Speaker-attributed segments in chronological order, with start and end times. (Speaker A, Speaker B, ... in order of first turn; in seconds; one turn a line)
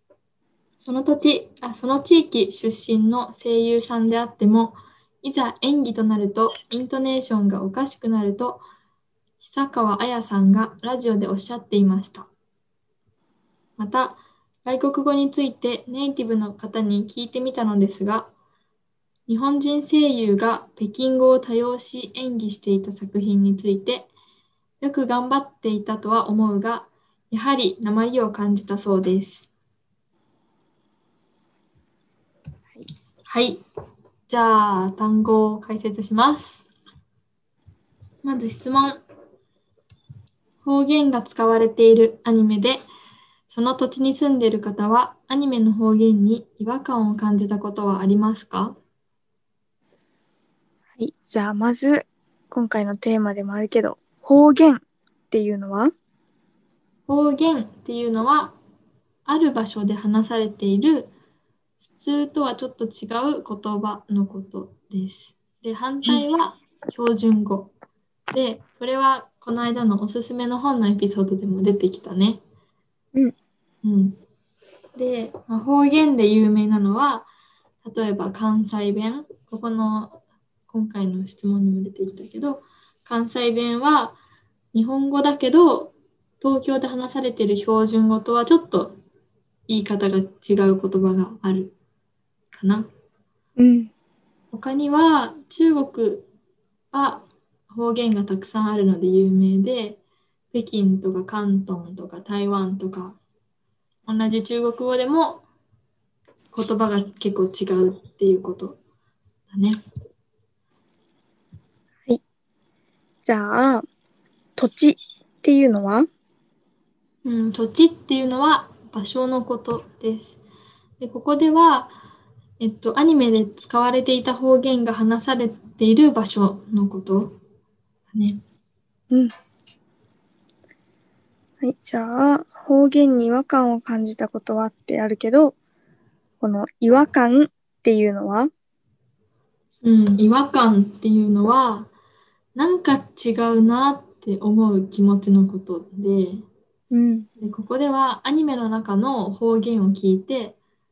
Speaker A: 0.8-8.6
Speaker A: 9.4-12.3
Speaker A: 13.8-18.3
Speaker A: 19.3-24.1
Speaker A: 24.8-29.5
Speaker A: 33.3-33.6
Speaker A: 34.3-36.7
Speaker A: 38.2-39.0
Speaker A: 40.6-42.8
Speaker A: 43.5-48.8
Speaker B: 51.0-55.9
Speaker A: 57.1-58.6
Speaker A: 59.2-61.1
Speaker A: 61.9-67.7
Speaker A: 68.3-72.4
Speaker A: 73.8-74.2
Speaker A: 75.0-77.3
Speaker A: 77.8-84.2
Speaker A: 84.7-89.0
Speaker A: 89.7-91.8
Speaker A: 92.5-92.9
Speaker B: 93.6-93.9
Speaker A: 94.5-96.3
Speaker A: 96.9-100.0
Speaker A: 100.5-103.2
Speaker A: 104.1-105.4
Speaker A: 106.5-108.8
Speaker A: 109.5-109.8
Speaker B: 113.2-113.8
Speaker B: 114.6-116.1
Speaker A: 117.2-120.4
Speaker A: 121.0-121.9
Speaker A: 122.6-127.4
Speaker A: 128.1-128.4
Speaker B: 131.6-135.6
Speaker B: 136.4-138.5
Speaker A: 139.8-141.9
Speaker A: 142.6-146.4
Speaker B: 146.9-147.3
Speaker A: 147.4-150.6